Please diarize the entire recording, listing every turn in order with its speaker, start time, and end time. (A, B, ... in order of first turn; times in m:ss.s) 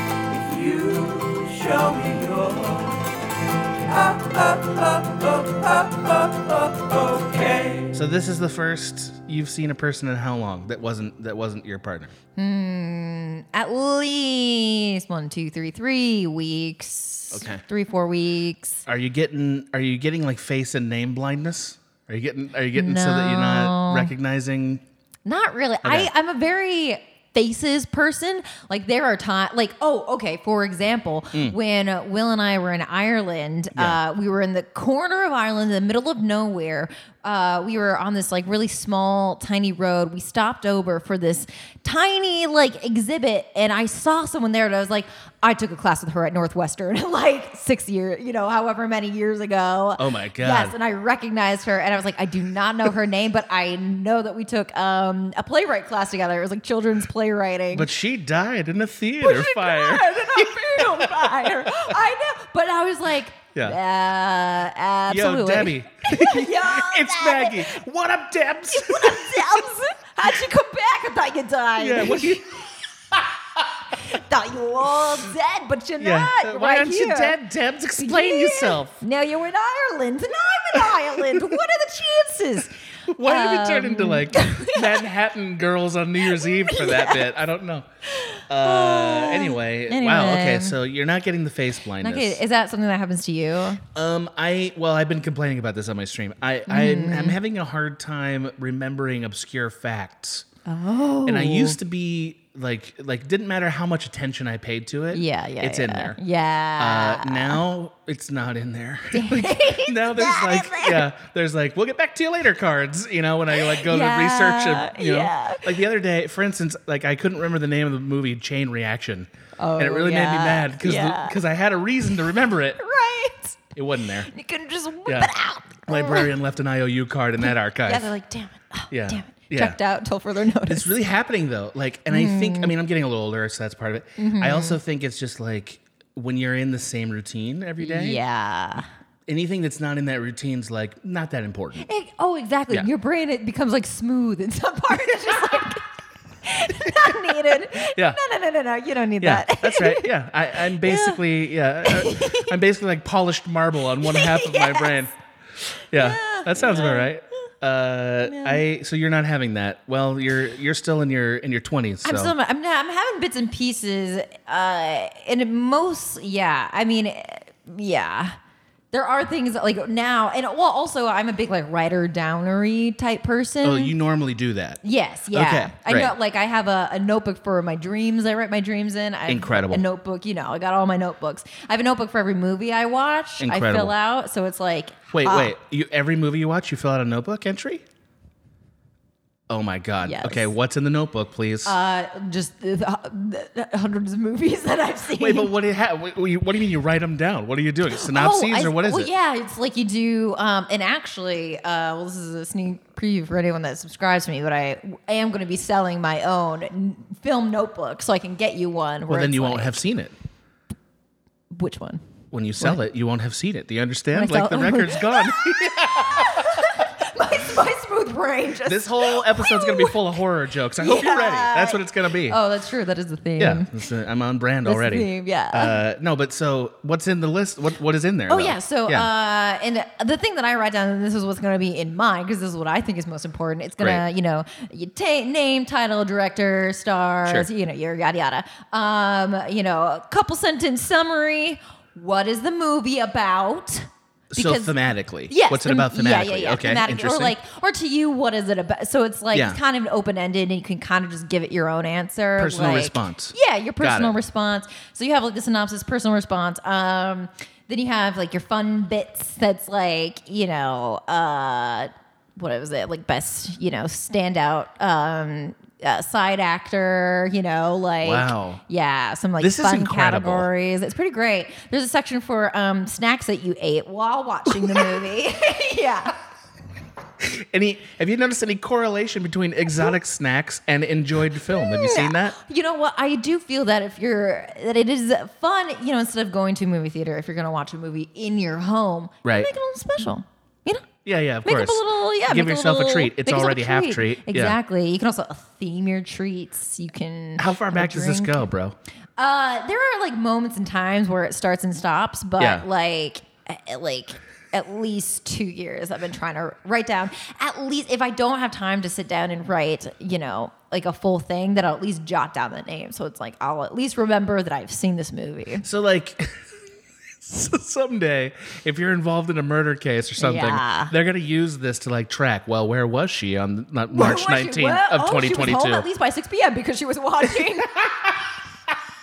0:00.3-0:03.0 A
0:03.8-0:07.9 A
0:07.9-0:12.1 B
0:12.4-0:18.9 C
0:17.3-0:17.6 B
0:18.9-0:24.8 B
0:22.8-0:24.1 C
0:25.3-0:57.9 C
0:25.8-0:26.1 B
0:33.7-0:34.0 B
0:50.0-0:50.8 B
0:57.7-1:01.9 B
0:59.2-1:07.8 C
1:05.1-1:09.7 B
1:08.7-1:12.4 C
1:11.8-1:13.6 B
1:14.0-1:17.4 C
1:16.0-1:19.0 B
1:18.0-1:25.0 C
1:20.8-1:21.6 B
1:23.1-1:27.9 B
1:26.3-1:27.3 C
1:28.1-1:30.8 C
1:28.5-1:32.4 B
1:32.0-1:33.8 C
1:34.0-1:40.5 B
1:36.7-1:37.4 C
1:40.7-1:41.8 C
1:41.3-1:46.2 B
1:45.1-1:47.6 C
1:46.8-2:02.8 B
1:49.1-1:51.1 C
1:53.5-1:55.8 C
1:59.6-2:01.4 C
2:02.8-2:03.6 C
2:03.8-2:04.3 B
2:04.2-2:06.3 C
2:05.1-2:05.3 B
2:05.9-2:08.1 B
2:07.4-2:10.9 C
2:08.9-2:09.8 B
2:10.7-2:18.2 B
2:12.1-2:12.7 C
2:14.2-2:14.8 C
2:17.8-2:18.9 C
2:19.3-2:21.9 B
2:21.8-2:25.8 C
2:26.4-2:30.1 C
2:26.8-2:28.2 B
2:29.2-2:42.3 B
2:30.7-2:31.2 C
2:31.8-2:32.5 C
2:34.0-2:35.1 C
2:35.9-2:37.1 C
2:38.3-2:38.6 C
2:42.0-2:48.4 C
2:48.9-2:53.9 C
2:53.6-2:54.8 B
2:54.8-3:05.5 C
2:55.3-2:56.1 B
2:59.3-2:59.8 B
3:03.4-3:03.9 B
3:05.1-3:07.8 B
3:09.5-3:11.8 B
3:10.0-3:10.5 C
3:11.6-3:15.5 C
3:15.2-3:19.1 B
3:18.0-3:29.8 C
3:29.1-3:30.1 B
3:31.5-3:32.0 C
3:32.3-3:36.8 B
3:34.1-3:40.0 C
3:38.7-3:42.4 B
3:40.8-3:43.7 C
3:43.4-3:49.1 B
3:44.6-3:45.8 C
3:48.3-4:04.7 C
4:04.3-4:07.4 B
4:05.3-4:36.2 C
4:09.3-4:09.6 B
4:12.4-4:14.2 B
4:28.0-4:28.6 B
4:29.4-4:30.5 B
4:34.6-4:34.9 B
4:37.2-4:42.4 B
4:41.5-4:50.9 C
4:49.2-4:49.5 B
4:51.0-4:54.6 B
4:51.4-4:58.5 C
4:57.4-4:58.8 B
4:59.2-5:15.6 C
5:02.4-5:02.7 B
5:15.6-5:16.4 B
5:17.2-5:25.9 B
5:20.2-5:20.9 C
5:23.9-5:28.1 C